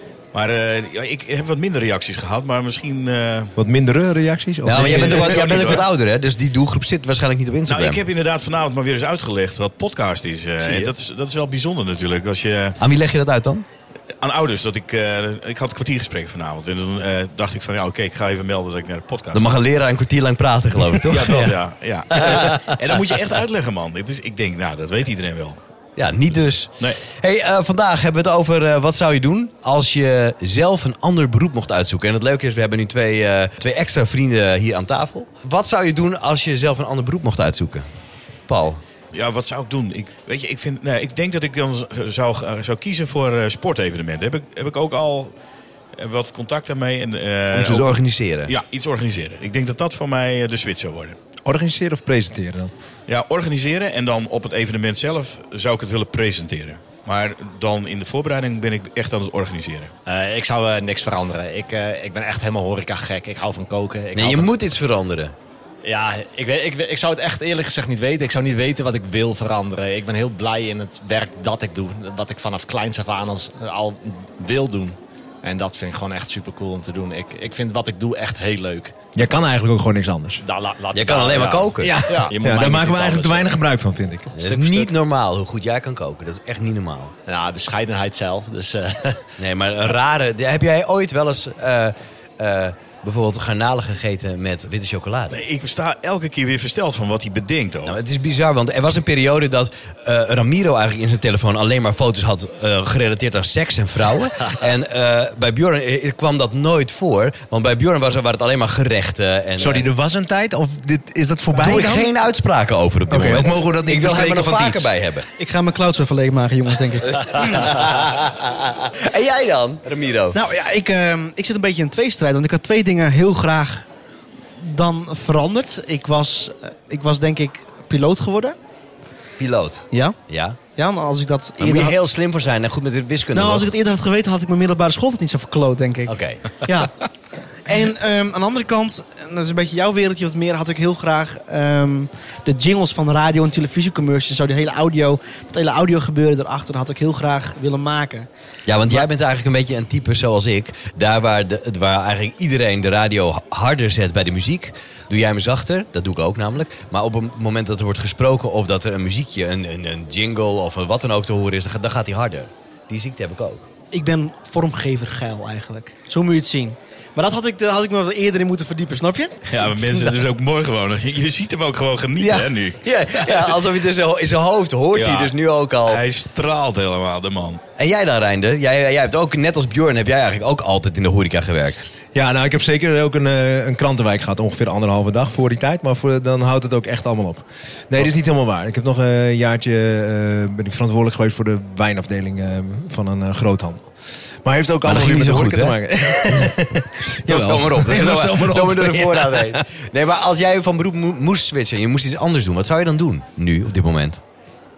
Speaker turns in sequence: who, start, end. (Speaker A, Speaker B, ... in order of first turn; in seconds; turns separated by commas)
Speaker A: 0.3-3.5, Speaker B: 3.5-5.8, Speaker C: 4.6-8.0, Speaker A: 4.7-5.9, Speaker A: 7.7-12.8, Speaker C: 10.6-10.9, Speaker C: 12.8-13.6, Speaker A: 14.2-19.5, Speaker C: 19.3-21.6, Speaker A: 20.9-25.6, Speaker C: 22.1-22.7, Speaker C: 26.0-37.9, Speaker C: 38.5-38.8, Speaker A: 39.1-45.3, Speaker A: 46.0-51.1, Speaker C: 47.5-48.5, Speaker B: 51.5-52.7, Speaker A: 53.1-59.9, Speaker D: 60.0-64.5, Speaker C: 64.1-65.3, Speaker D: 65.8-79.0, Speaker B: 79.1-80.4, Speaker D: 80.4-83.5, Speaker C: 80.9-82.0, Speaker B: 81.8-84.8, Speaker C: 84.4-87.1, Speaker D: 84.5-84.8, Speaker D: 87.3-89.3, Speaker C: 89.4-95.4, Speaker A: 95.3-98.0, Speaker C: 97.8-109.8, Speaker B: 109.6-112.1, Speaker C: 111.5-115.2, Speaker B: 113.1-114.9, Speaker E: 115.4-117.7, Speaker C: 117.1-120.4, Speaker E: 120.3-123.8, Speaker E: 124.6-128.6, Speaker C: 129.4-130.6, Speaker E: 130.8-131.9, Speaker C: 131.6-133.7, Speaker E: 133.3-136.9, Speaker C: 136.1-136.4, Speaker E: 137.7-148.3, Speaker C: 148.7-163.7, Speaker E: 163.9-169.3, Speaker A: 169.4-173.6, Speaker C: 169.8-170.1, Speaker C: 172.2-176.0, Speaker A: 174.9-177.6, Speaker C: 177.8-181.9, Speaker B: 182.1-193.9, Speaker B: 194.4-199.6, Speaker C: 194.8-196.5, Speaker C: 197.2-204.2